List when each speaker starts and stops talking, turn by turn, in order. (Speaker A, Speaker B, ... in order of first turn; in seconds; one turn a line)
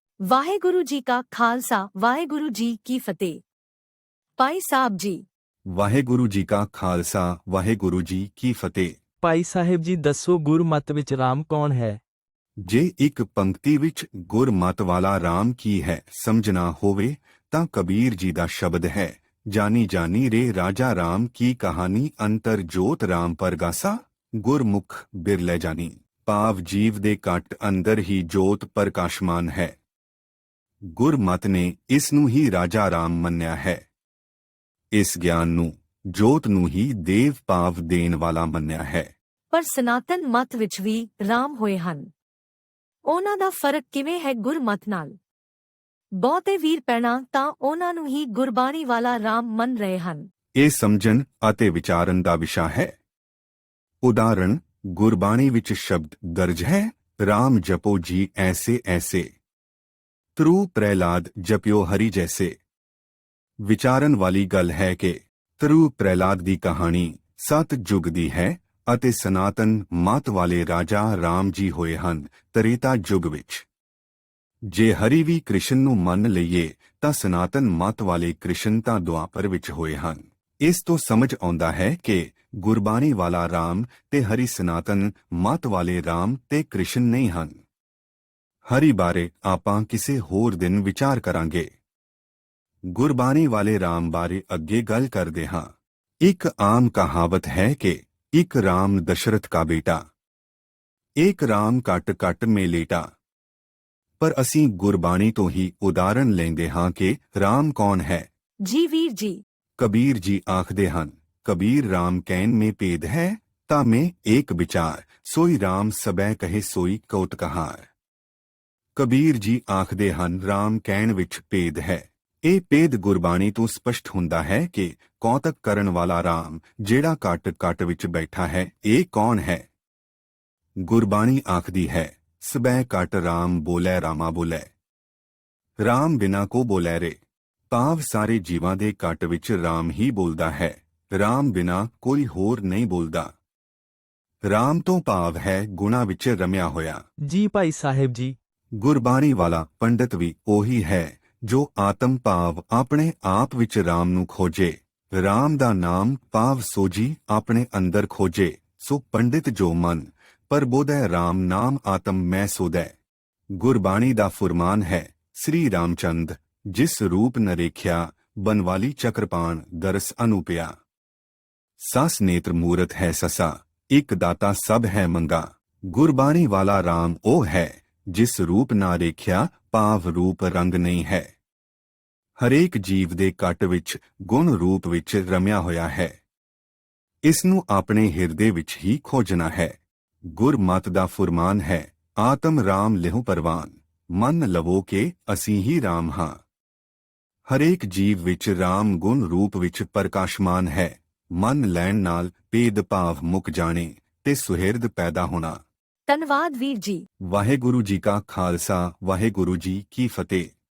Speaker A: 0.2-3.4
Speaker A: 4.4-5.2
Speaker B: 5.7-8.9
Speaker C: 9.2-12.0
Speaker B: 12.6-29.8
Speaker B: 30.9-33.8
Speaker B: 34.9-39.1
Speaker A: 39.5-42.1
Speaker A: 43.1-45.1
Speaker A: 46.2-50.3
Speaker B: 50.6-52.9
Speaker B: 54.0-59.3
Speaker B: 60.4-62.5
Speaker B: 63.6-73.6
Speaker B: 74.7-87.6
Speaker B: 88.7-91.7
Speaker B: 92.9-95.7
Speaker B: 96.2-100.0
Speaker B: 101.2-103.0
Speaker B: 104.2-108.3
Speaker A: 108.6-109.4
Speaker B: 109.8-117.9
Speaker B: 119.0-129.6
Speaker B: 130.8-134.7
Speaker B: 135.8-137.2
Speaker B: 137.7-143.3
Speaker B: 144.5-147.0
Speaker C: 147.2-148.3
Speaker B: 148.8-162.9
Speaker B: 163.5-170.7
Speaker B: 171.8-181.3
Speaker B: 182.4-186.1
Speaker B: 187.2-189.8
Speaker B: 190.3-196.4
Speaker B: 197.5-205.6
Speaker A: 206.1-207.1
Speaker B: 207.3-210.5